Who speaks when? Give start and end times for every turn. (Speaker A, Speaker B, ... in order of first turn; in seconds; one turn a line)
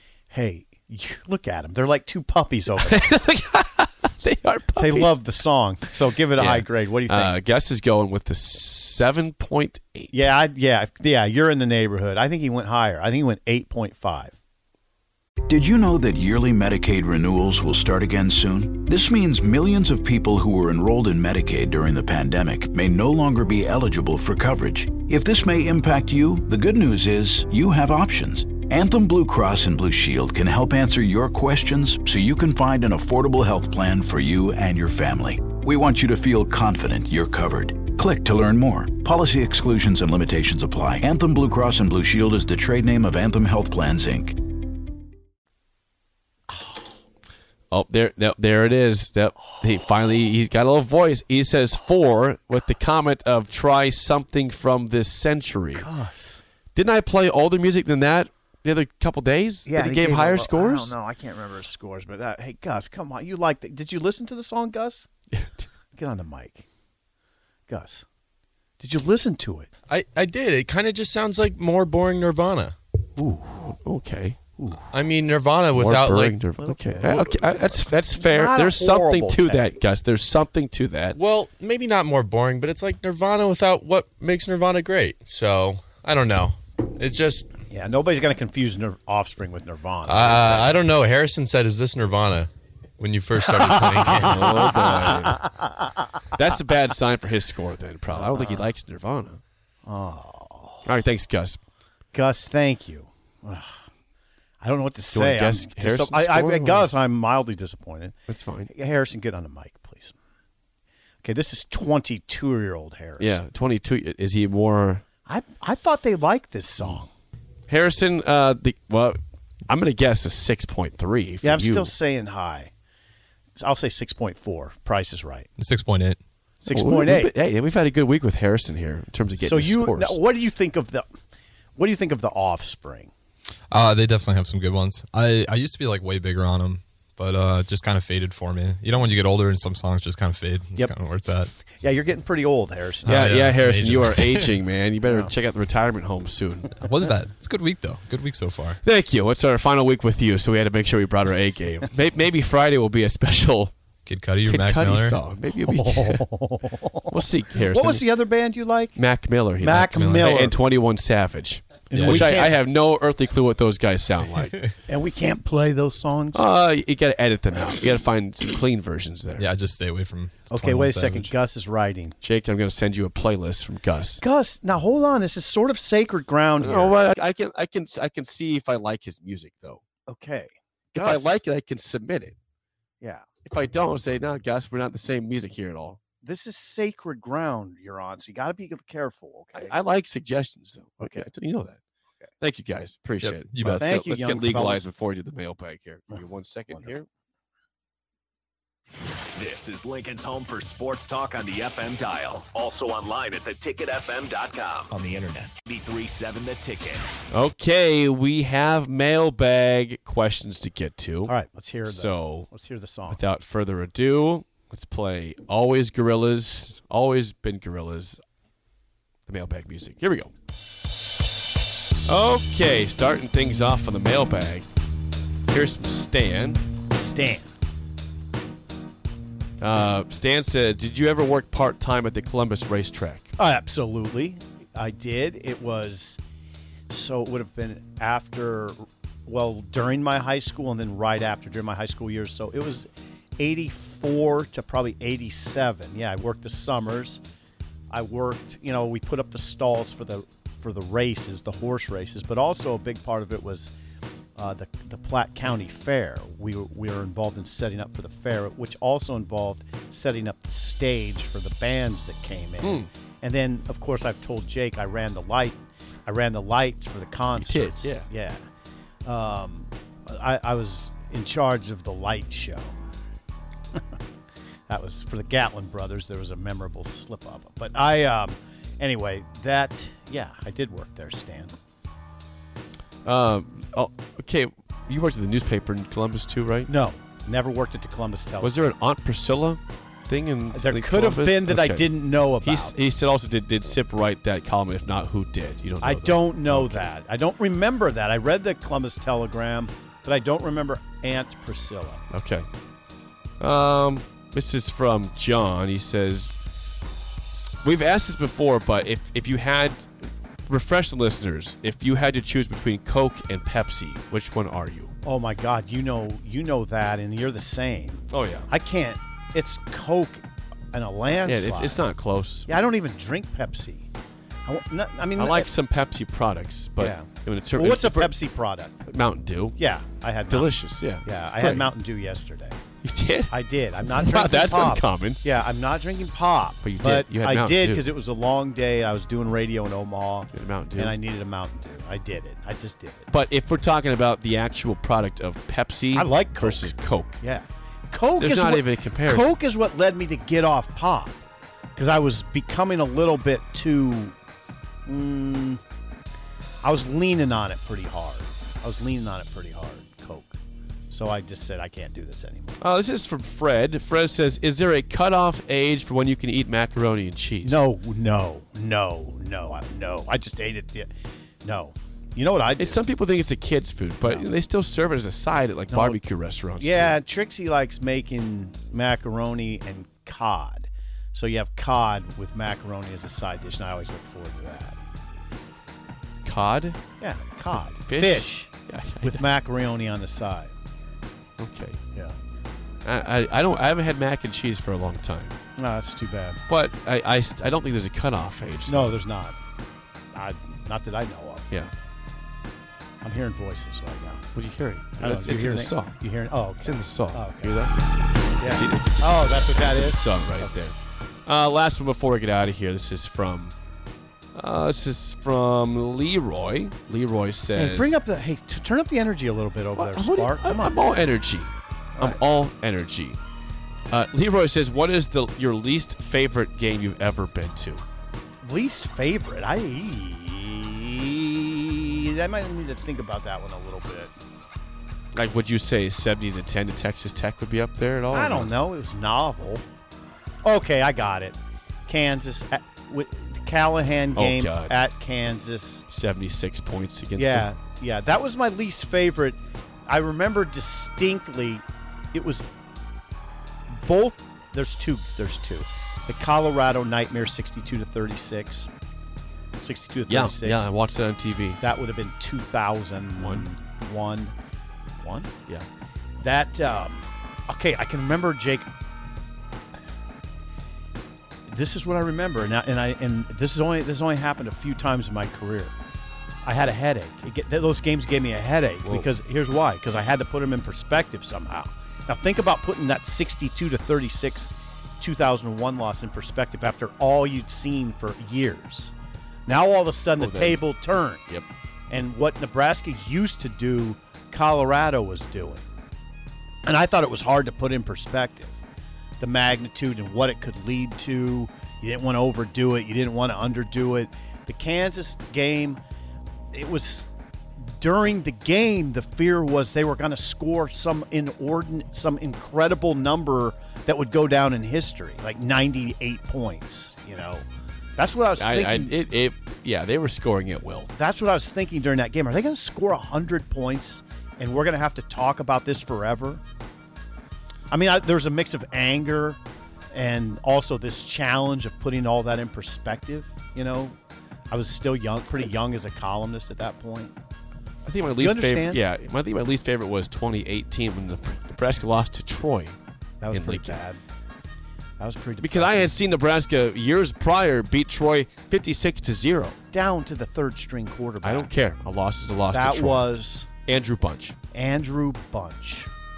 Speaker A: 0.3-3.1
Speaker B: 2.9-5.1
Speaker A: 4.8-7.4
Speaker B: 6.3-10.3
Speaker A: 10.1-14.3
Speaker C: 15.5-44.4
Speaker B: 47.7-55.9
Speaker A: 55.7-56.4
Speaker B: 56.7-60.9
Speaker A: 59.6-65.1
Speaker A: 65.9-66.7
Speaker A: 67.7-68.0
Speaker A: 68.8-69.7
Speaker D: 69.9-72.8
Speaker A: 73.2-73.6
Speaker B: 73.6-74.4
Speaker A: 74.6-74.8
Speaker D: 74.9-76.4
Speaker B: 75.7-81.2
Speaker A: 76.6-79.7
Speaker D: 81.1-87.5
Speaker A: 87.7-90.8
Speaker D: 90.0-94.7
Speaker A: 93.5-95.9
Speaker B: 94.1-95.5
Speaker B: 96.3-99.4
Speaker A: 98.1-98.6
Speaker A: 99.8-100.8
Speaker B: 100.8-101.6
Speaker A: 102.1-103.8
Speaker A: 104.6-108.2
Speaker B: 105.1-106.9
Speaker B: 108.3-108.7
Speaker A: 108.7-110.2
Speaker A: 111.2-113.4
Speaker B: 113.2-115.0
Speaker A: 115.2-117.1
Speaker B: 117.7-121.9
Speaker A: 121.4-122.7
Speaker A: 123.6-125.5
Speaker E: 125.6-126.2
Speaker A: 126.6-127.3
Speaker B: 126.7-130.2
Speaker A: 129.4-131.1
Speaker A: 131.8-133.1
Speaker E: 133.7-141.5
Speaker A: 141.7-143.3
Speaker B: 143.0-146.8
Speaker E: 143.1-144.6
Speaker E: 146.8-148.8
Speaker B: 148.8-153.7
Speaker E: 154.1-155.2
Speaker B: 154.4-156.3
Speaker A: 155.7-157.1
Speaker B: 157.1-158.1
Speaker A: 157.7-159.0
Speaker B: 158.9-164.6
Speaker A: 159.6-160.6
Speaker E: 159.8-160.4
Speaker A: 161.9-162.6
Speaker E: 161.9-162.4
Speaker A: 164.9-166.5
Speaker B: 166.3-169.5
Speaker E: 169.4-171.3
Speaker A: 170.5-172.2
Speaker B: 172.2-174.2
Speaker A: 174.2-176.9
Speaker B: 176.6-179.8
Speaker A: 180.1-181.2
Speaker B: 180.9-182.3
Speaker B: 183.4-186.0
Speaker A: 186.2-189.7
Speaker B: 189.5-191.8
Speaker A: 191.0-191.3
Speaker B: 192.4-197.1
Speaker E: 193.2-193.9
Speaker A: 193.8-194.9
Speaker F: 199.5-207.1
Speaker B: 207.3-211.3
Speaker A: 211.3-213.2
Speaker B: 211.8-212.5
Speaker B: 213.1-218.2
Speaker B: 219.3-220.3
Speaker B: 222.1-224.7
Speaker B: 225.5-226.6
Speaker A: 226.9-227.5
Speaker B: 229.6-233.3
Speaker A: 233.4-236.2
Speaker A: 236.9-247.2
Speaker A: 247.9-253.7
Speaker A: 254.4-268.4
Speaker B: 262.6-262.9
Speaker B: 267.3-268.1
Speaker A: 269.0-272.8
Speaker A: 274.7-281.5
Speaker B: 283.0-286.7
Speaker A: 286.7-288.5
Speaker B: 288.4-296.9
Speaker A: 290.5-292.7
Speaker A: 295.8-302.0
Speaker B: 302.1-302.5
Speaker B: 303.4-306.4
Speaker B: 307.6-314.9
Speaker A: 315.0-321.9
Speaker B: 318.1-318.5
Speaker B: 321.2-322.5
Speaker A: 322.5-323.9
Speaker A: 324.4-325.5
Speaker B: 325.1-328.2
Speaker A: 326.8-328.8
Speaker B: 328.9-329.6
Speaker A: 329.6-332.6
Speaker B: 330.3-331.7
Speaker B: 332.8-335.2
Speaker A: 333.3-343.1
Speaker B: 336.6-337.8
Speaker B: 340.3-341.0
Speaker B: 343.1-347.2
Speaker A: 345.9-351.1
Speaker B: 348.0-349.3
Speaker A: 351.8-354.1
Speaker A: 354.9-355.6
Speaker A: 356.6-360.4
Speaker A: 360.9-362.6
Speaker B: 362.6-367.6
Speaker A: 367.4-370.9
Speaker A: 371.4-372.8
Speaker B: 372.6-377.0
Speaker A: 375.7-376.0
Speaker A: 376.6-384.8
Speaker B: 386.2-386.8
Speaker A: 387.0-390.5
Speaker B: 387.5-389.2
Speaker B: 391.4-391.8
Speaker B: 392.8-395.4
Speaker A: 395.6-396.4
Speaker B: 396.5-398.9
Speaker A: 398.7-399.4
Speaker A: 400.1-401.5
Speaker A: 403.0-404.3
Speaker B: 404.3-405.9
Speaker A: 405.0-407.6
Speaker B: 406.6-407.7
Speaker A: 408.4-410.5
Speaker B: 408.4-410.7
Speaker B: 411.2-413.5
Speaker B: 414.3-418.0
Speaker A: 417.5-420.8
Speaker B: 419.8-423.2
Speaker B: 423.9-427.8
Speaker A: 428.4-434.1
Speaker B: 435.1-438.5
Speaker A: 438.1-439.6
Speaker A: 440.4-441.4
Speaker A: 441.9-445.9
Speaker B: 444.1-444.7
Speaker B: 445.9-447.5
Speaker A: 447.1-452.4
Speaker A: 453.7-458.7
Speaker A: 459.6-460.7
Speaker B: 460.1-461.6
Speaker A: 461.6-464.3
Speaker B: 463.2-463.5
Speaker A: 465.0-465.3
Speaker A: 466.2-468.7
Speaker A: 471.5-475.7
Speaker A: 476.4-488.9
Speaker B: 478.8-479.1
Speaker A: 489.5-491.2
Speaker B: 490.2-490.6
Speaker A: 491.9-495.6
Speaker A: 496.6-498.5
Speaker A: 499.2-505.8
Speaker A: 506.5-507.1
Speaker A: 507.6-517.5
Speaker A: 518.0-518.9
Speaker B: 518.4-520.9
Speaker A: 520.9-526.4
Speaker A: 527.7-529.4
Speaker A: 529.9-534.0
Speaker A: 534.5-537.1
Speaker B: 537.8-542.8
Speaker A: 538.2-538.8
Speaker A: 543.2-544.0
Speaker B: 543.3-543.8
Speaker A: 545.0-545.9
Speaker B: 545.4-549.6
Speaker A: 549.7-551.5
Speaker B: 551.2-553.1
Speaker A: 552.5-553.5
Speaker B: 553.6-554.4
Speaker A: 554.5-555.9